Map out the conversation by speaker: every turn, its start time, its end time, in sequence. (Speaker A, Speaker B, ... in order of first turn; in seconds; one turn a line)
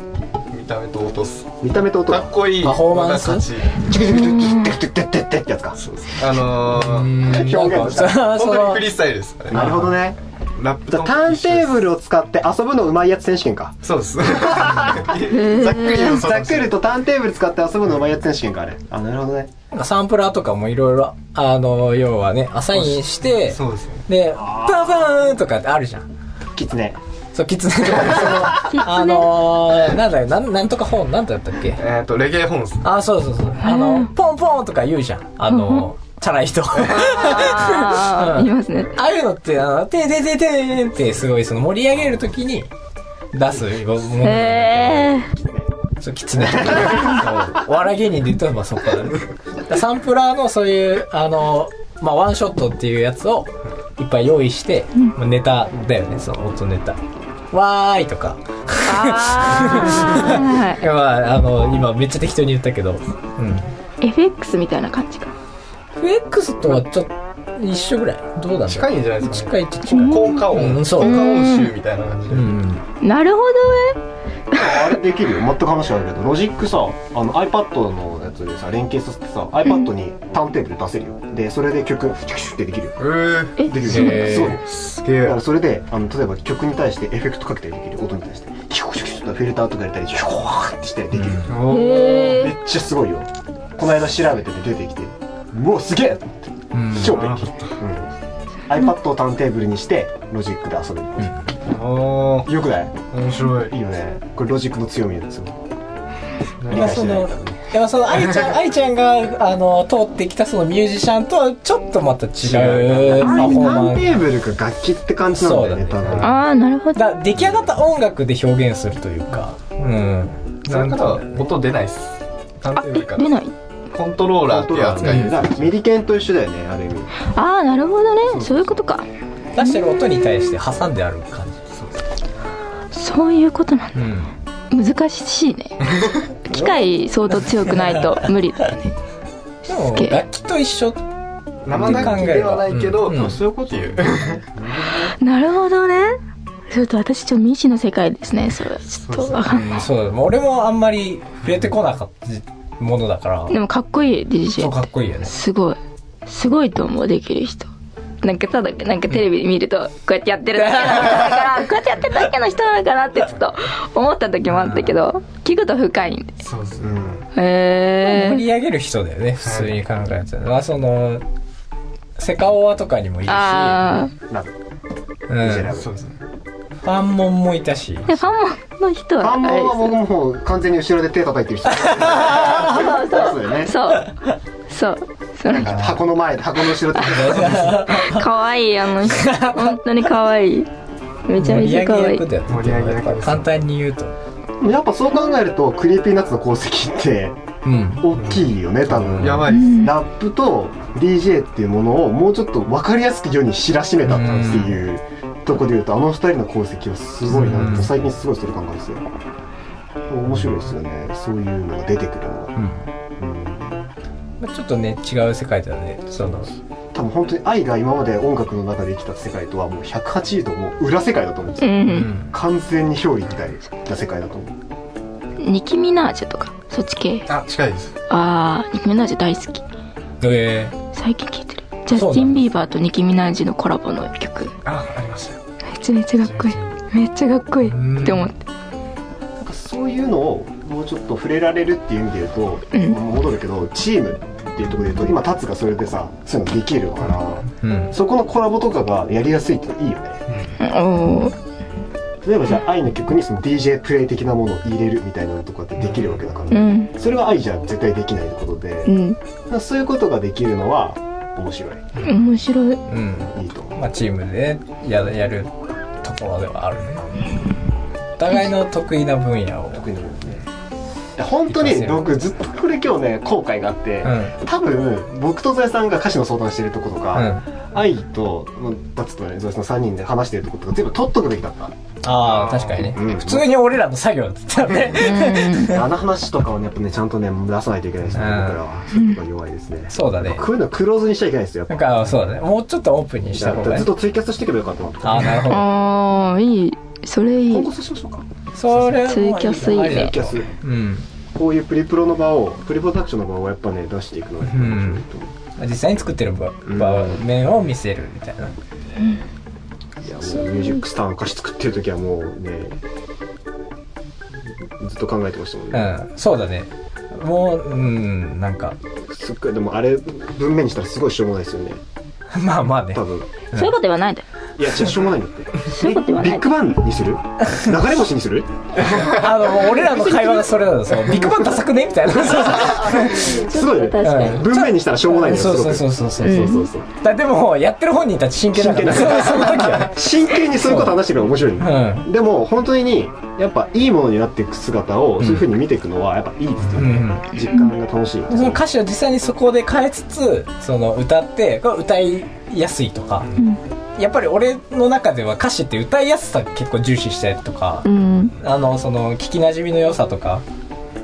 Speaker A: 0.5-1.6
Speaker B: 1.6-2.4
Speaker A: 2.1-3.8
Speaker C: 2.6-3.5
Speaker B: 3.8-6.2
Speaker D: 4.1-4.6
Speaker A: 5.8-10.0
Speaker C: 6.6-8.9
Speaker B: 7.2-8.2
Speaker B: 9.5-10.2
Speaker C: 9.5-9.8
Speaker A: 10.6-11.8
Speaker B: 10.9-19.5
Speaker A: 13.8-16.8
Speaker D: 15.3-16.2
Speaker C: 19.7-26.1
Speaker A: 22.7-24.0
Speaker B: 24.3-25.2
Speaker B: 26.5-27.0
Speaker C: 27.3-31.8
Speaker B: 27.9-28.6
Speaker D: 28.5-29.3
Speaker A: 31.8-32.9
Speaker C: 32.8-42.7
Speaker D: 33.6-34.1
Speaker D: 35.5-35.9
Speaker D: 36.9-39.0
Speaker C: 43.3-45.3
Speaker D: 44.2-45.3
Speaker B: 45.4-45.7
Speaker C: 46.0-57.0
Speaker B: 46.4-47.5
Speaker C: 57.5-63.7
Speaker D: 58.8-60.8
Speaker D: 64.0-65.3
Speaker C: 66.0-71.3
Speaker A: 68.6-72.6
Speaker D: 69.9-71.7
Speaker C: 72.3-72.8
Speaker D: 73.0-74.0
Speaker B: 74.5-83.0
Speaker A: 83.0-85.4
Speaker D: 83.6-84.4
Speaker B: 83.6-98.1
Speaker C: 83.8-84.6
Speaker C: 91.1-91.6
Speaker A: 91.5-92.4
Speaker D: 91.7-92.5
Speaker C: 96.7-97.2
Speaker A: 97.0-97.7
Speaker B: 98.7-101.3
Speaker A: 101.7-102.5
Speaker B: 102.5-103.0
Speaker A: 103.1-103.7
Speaker B: 103.6-105.6
Speaker A: 106.6-107.0
Speaker B: 106.7-107.8
Speaker C: 106.7-114.2
Speaker A: 112.4-113.3
Speaker B: 113.1-116.4
Speaker C: 115.3-116.3
Speaker A: 116.1-116.3
Speaker D: 116.2-117.0
Speaker C: 116.9-121.5
Speaker A: 120.7-123.3
Speaker D: 122.7-123.5
Speaker A: 123.9-125.7
Speaker B: 124.4-127.1
Speaker C: 125.0-125.3
Speaker D: 127.3-129.1
Speaker B: 128.2-128.8
Speaker C: 129.5-131.6
Speaker A: 131.7-132.0
Speaker D: 132.9-134.0
Speaker C: 133.9-134.3
Speaker D: 134.7-135.8
Speaker D: 136.4-138.9
Speaker C: 137.5-138.1
Speaker C: 139.7-141.0
Speaker D: 139.7-140.2
Speaker A: 141.6-144.4
Speaker B: 141.7-142.4
Speaker C: 141.7-143.4
Speaker B: 143.8-145.1
Speaker D: 145.0-146.2
Speaker D: 146.7-149.8
Speaker A: 149.0-149.6
Speaker C: 149.5-153.5
Speaker D: 153.5-157.7
Speaker C: 154.6-155.3
Speaker D: 158.2-166.3
Speaker C: 160.6-161.4
Speaker C: 164.5-165.0
Speaker A: 166.4-167.2
Speaker B: 166.8-167.2
Speaker D: 167.3-168.4
Speaker C: 168.0-171.2
Speaker A: 169.4-169.7
Speaker C: 172.2-174.0
Speaker D: 173.3-174.1
Speaker B: 174.2-174.5
Speaker C: 175.3-175.7
Speaker B: 175.4-175.9
Speaker A: 175.7-176.2
Speaker C: 176.8-178.2
Speaker D: 178.1-179.9
Speaker B: 179.2-183.7
Speaker C: 181.8-182.8
Speaker D: 182.5-184.1
Speaker D: 184.7-185.8
Speaker B: 185.5-187.8
Speaker C: 185.6-185.9
Speaker C: 186.9-188.3
Speaker D: 187.0-190.7
Speaker C: 189.0-189.8
Speaker D: 191.3-192.2
Speaker C: 191.4-194.1
Speaker A: 192.5-193.5
Speaker B: 194.6-197.4
Speaker C: 197.6-198.1
Speaker B: 198.0-209.1
Speaker A: 198.1-199.9
Speaker D: 199.5-199.9
Speaker C: 204.1-204.8
Speaker C: 207.3-207.9
Speaker B: 210.1-212.6
Speaker C: 212.6-212.8
Speaker B: 213.2-213.9
Speaker C: 214.4-216.5
Speaker B: 216.9-224.6
Speaker D: 221.6-222.1
Speaker C: 221.9-222.3
Speaker D: 225.4-227.3
Speaker A: 227.3-227.9
Speaker D: 228.1-229.6
Speaker C: 230.2-230.7
Speaker D: 230.9-234.5
Speaker C: 231.9-232.4
Speaker A: 234.6-235.4
Speaker D: 235.7-238.4
Speaker A: 236.2-236.7
Speaker C: 237.6-238.3
Speaker B: 239.4-250.3
Speaker D: 242.7-243.0
Speaker C: 247.6-247.9
Speaker A: 250.3-250.6
Speaker D: 250.6-251.3
Speaker B: 252.2-258.9
Speaker D: 256.5-256.9
Speaker D: 258.9-259.2
Speaker B: 259.5-261.9
Speaker D: 262.0-262.8
Speaker C: 262.9-267.0
Speaker B: 263.3-263.8
Speaker B: 267.0-267.2
Speaker C: 268.2-269.8
Speaker B: 269.7-270.5
Speaker B: 271.1-281.7
Speaker C: 271.5-272.1
Speaker C: 274.0-274.3
Speaker C: 277.1-277.4
Speaker C: 282.0-285.8
Speaker A: 282.2-282.9
Speaker B: 282.8-283.5
Speaker D: 284.9-285.8
Speaker B: 285.6-291.9
Speaker C: 288.1-288.6
Speaker D: 288.9-289.2
Speaker C: 289.9-290.4
Speaker C: 291.7-293.9
Speaker B: 293.3-295.5
Speaker C: 295.0-295.7
Speaker D: 295.5-297.7
Speaker B: 297.5-298.3
Speaker C: 298.5-301.1
Speaker D: 298.9-300.1
Speaker B: 299.7-300.5
Speaker B: 301.3-305.3
Speaker C: 304.4-305.0
Speaker C: 305.6-308.5
Speaker B: 306.6-307.2
Speaker B: 310.0-312.8
Speaker B: 314.8-315.9
Speaker C: 315.7-318.8
Speaker B: 319.1-321.8
Speaker C: 322.3-323.7
Speaker B: 322.9-323.3
Speaker D: 323.5-324.2
Speaker B: 324.6-331.6
Speaker D: 325.6-326.5
Speaker C: 328.8-333.4
Speaker B: 332.2-336.9
Speaker D: 333.1-334.4
Speaker C: 334.0-341.0
Speaker D: 336.2-336.7
Speaker B: 338.5-348.6
Speaker C: 341.6-342.1
Speaker C: 345.2-345.5
Speaker C: 346.7-347.3
Speaker C: 348.3-353.3
Speaker C: 354.0-360.4
Speaker D: 357.8-358.3